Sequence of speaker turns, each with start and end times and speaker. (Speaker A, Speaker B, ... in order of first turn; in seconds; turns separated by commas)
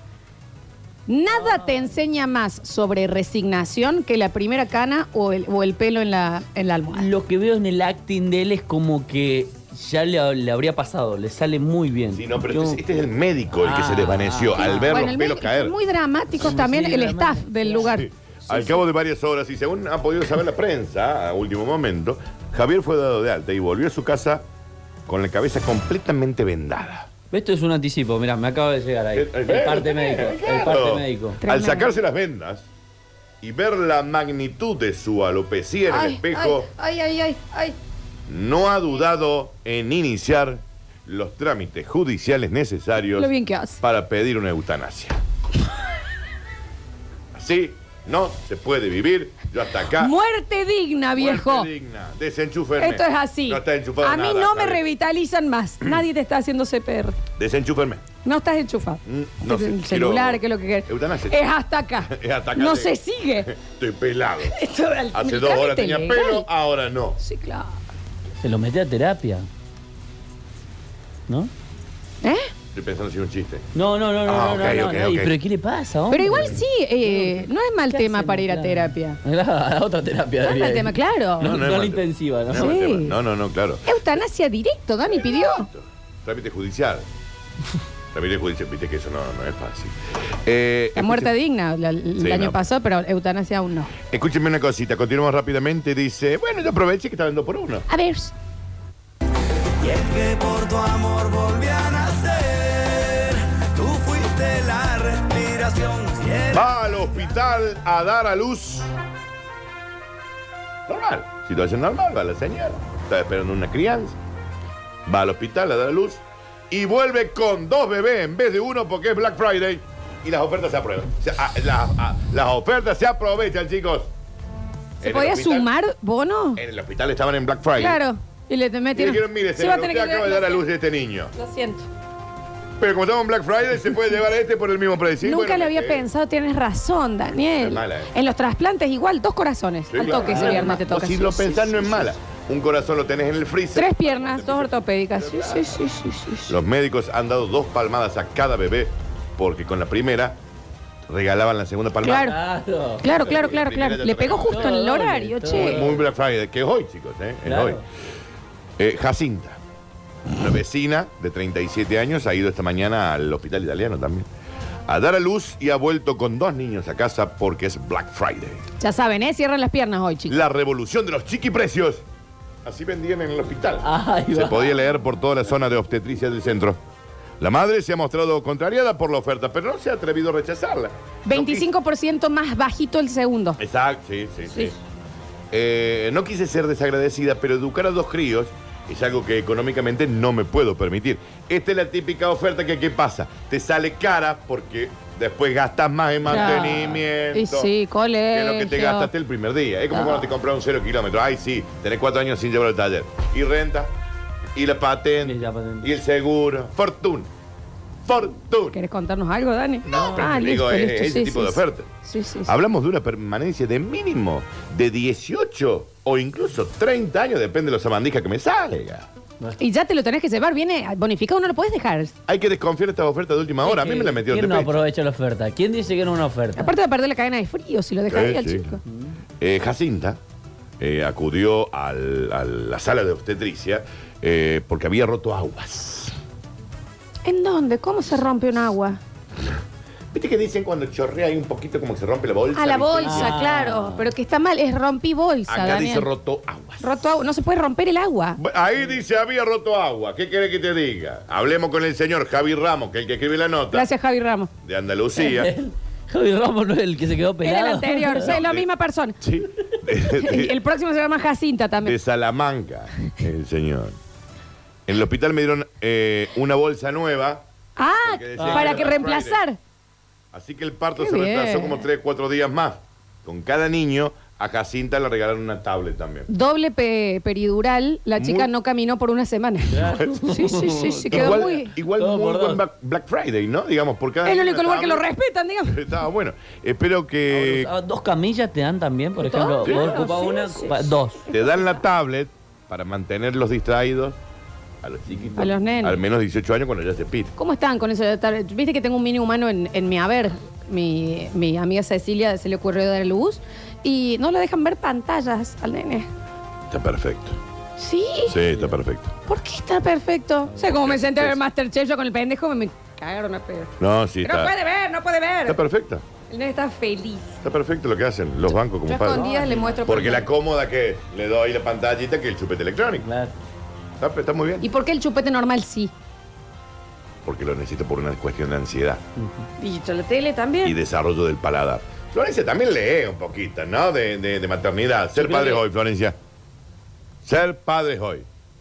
Speaker A: 1.1-7.1, Speaker B: 1.4-1.8, Speaker B: 6.9-12.8, Speaker C: 12.1-15.7, Speaker B: 13.6-15.0, Speaker A: 14.6-18.8, Speaker B: 16.4-17.9, Speaker C: 17.8-24.4, Speaker C: 25.1-27.1, Speaker B: 27.3-31.4, Speaker C: 29.1-32.7, Speaker A: 31.4-31.9, Speaker C: 33.4-36.7, Speaker A: 35.9-37.8, Speaker C: 38.3-45.2, Speaker A: 43.2-43.8, Speaker C: 47.3-50.1, Speaker A: 49.9-51.7, Speaker C: 51.1-54.8, Speaker A: 52.8-57.2, Speaker C: 57.4-58.0, Speaker A: 58.2-63.5, Speaker C: 59.0-61.4, Speaker C: 62.0-64.6, Speaker A: 64.4-66.5, Speaker C: 65.1-67.2, Speaker A: 67.2-67.8, Speaker B: 68.4-69.5, Speaker A: 72.2-72.5, Speaker C: 72.7-73.7, Speaker B: 73.7-82.7, Speaker C: 74.2-75.3, Speaker A: 76.1-79.2, Speaker A: 80.4-81.6, Speaker C: 81.4-84.0, Speaker A: 82.5-83.2, Speaker A: 83.8-85.7, Speaker C: 85.1-87.1, Speaker C: 88.1-91.3, Speaker A: 91.0-93.9, Speaker C: 92.2-92.6, Speaker C: 94.1-97.8, Speaker A: 97.9-98.3, Speaker D: 99.8-106.7, Speaker C: 106.5-108.9, Speaker C: 110.9-114.2, Speaker C: 115.0-124.1, Speaker C: 125.0-125.7, Speaker A: 125.0-126.6, Speaker C: 126.6-128.0, Speaker A: 127.8-130.7, Speaker C: 128.9-131.3, Speaker A: 131.3-131.9, Speaker C: 132.8-136.1, Speaker A: 135.2-142.1, Speaker C: 137.6-138.1, Speaker C: 139.9-145.8, Speaker B: 140.3-140.7, Speaker A: 143.7-146.6, Speaker C: 146.5-150.4, Speaker C: 151.1-152.3, Speaker A: 152.0-152.3, Speaker B: 152.1-153.2, Speaker A: 153.0-155.8, Speaker C: 153.1-154.8, Speaker B: 154.5-156.0, Speaker C: 155.5-157.8, Speaker B: 157.4-157.8, Speaker C: 158.8-159.6, Speaker C: 160.3-164.3, Speaker C: 164.9-168.6, Speaker A: 168.8-170.3, Speaker C: 170.3-172.0, Speaker C: 172.6-176.8, Speaker B: 173.8-174.8, Speaker C: 177.4-181.7, Speaker A: 181.2-183.6, Speaker C: 183.6-184.8, Speaker C: 185.5-197.7, Speaker B: 196.2-197.0, Speaker A: 196.3-196.8, Speaker A: 197.3-199.1, Speaker C: 198.3-203.9, Speaker A: 199.9-200.2, Speaker C: 204.5-207.3, Speaker B: 205.2-205.9, Speaker C: 208.0-208.8, Speaker A: 208.7-212.5, Speaker C: 209.8-211.9, Speaker B: 209.9-210.4, Speaker C: 212.4-219.1, Speaker A: 219.6-222.1, Speaker C: 222.3-224.8, Speaker B: 223.6-226.7, Speaker A: 226.6-228.8, Speaker C: 228.1-228.8, Speaker B: 228.9-229.1, Speaker C: 229.4-230.2, Speaker C: 230.8-236.2, Speaker A: 237.2-239.0, Speaker C: 240.1-243.4, Speaker A: 242.5-246.1, Speaker B: 243.0-244.1, Speaker C: 245.5-247.1, Speaker A: 246.8-248.4, Speaker C: 248.4-253.9, Speaker A: 253.7-254.5, Speaker C: 254.6-255.5, Speaker B: 255.2-258.3, Speaker A: 257.4-259.2, Speaker C: 258.2-258.6, Speaker C: 259.2-260.6, Speaker A: 260.0-261.9, Speaker C: 261.8-264.0, Speaker C: 264.9-267.4, Speaker A: 267.8-269.6, Speaker C: 268.0-269.4, Speaker B: 268.4-269.0, Speaker C: 270.3-276.3, Speaker A: 271.0-271.8, Speaker A: 276.3-281.7, Speaker C: 278.2-278.5, Speaker B: 279.7-282.6, Speaker C: 279.9-280.1, Speaker C: 281.1-285.0, Speaker A: 284.2-285.8, Speaker C: 285.7-287.7, Speaker B: 287.3-291.2, Speaker A: 289.2-291.8, Speaker C: 289.6-290.0, Speaker C: 291.3-294.2, Speaker C: 294.8-297.3, Speaker B: 295.1-295.5, Speaker A: 295.4-296.0, Speaker A: 297.4-306.1, Speaker C: 306.7-307.4, Speaker A: 307.8-308.4, Speaker C: 308.2-309.1, Speaker A: 309.2-315.6, Speaker C: 310.6-311.4, Speaker C: 313.8-314.5, Speaker C: 315.4-316.0, Speaker A: 316.3-317.4, Speaker C: 317.4-319.2, Speaker A: 318.9-320.3, Speaker B: 319.1-320.2, Speaker C: 319.8-323.1, Speaker B: 323.0-323.3, Speaker C: 324.0-324.6, Speaker A: 324.6-325.9, Speaker C: 327.2-329.0, Speaker B: 329.2-329.4, Speaker A: 329.6-330.8, Speaker C: 330.6-336.1, Speaker B: 335.1-335.6, Speaker C: 337.2-338.2